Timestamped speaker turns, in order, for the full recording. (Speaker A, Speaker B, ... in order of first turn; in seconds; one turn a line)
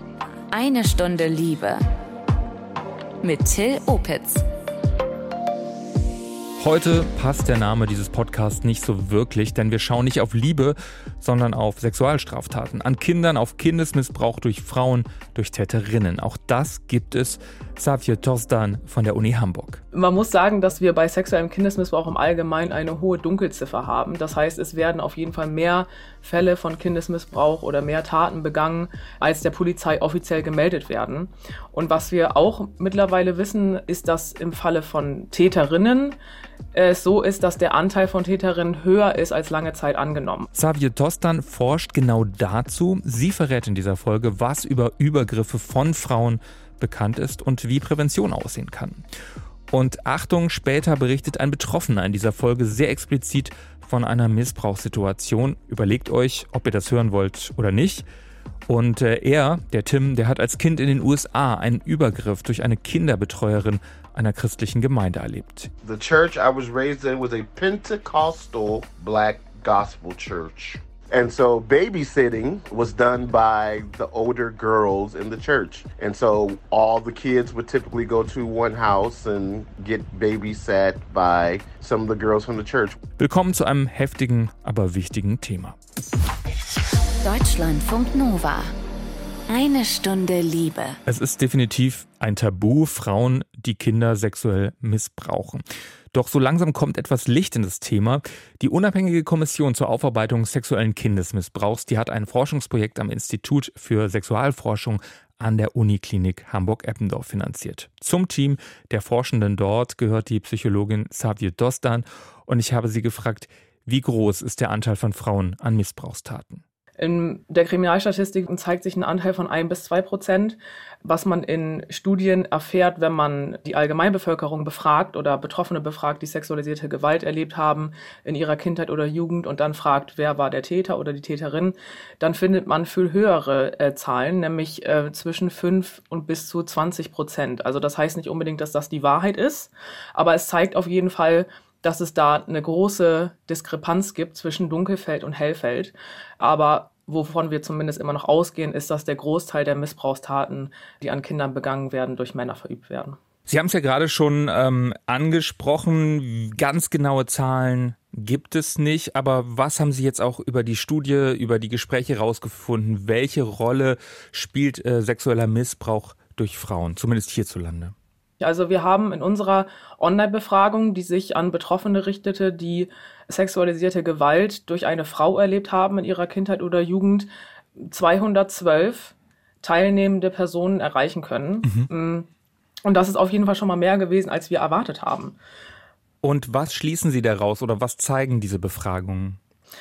Speaker A: 0.5-1.8
Speaker A: 3.2-4.4
Speaker B: 6.6-19.8
Speaker C: 19.9-36.2
Speaker C: 36.7-40.5
Speaker B: 40.5-49.0
Speaker B: 49.7-58.0
Speaker B: 58.7-65.7
Speaker D: 65.8-83.0
Speaker B: 83.2-85.8
Speaker A: 87.2-88.7
Speaker A: 89.5-91.0
Speaker B: 91.1-116.6
Speaker C: 117.0-153.2
Speaker B: 153.5-167.9
Speaker C: 168.4-182.3
Speaker C: 182.9-185.4
Speaker B: 186.2-189.4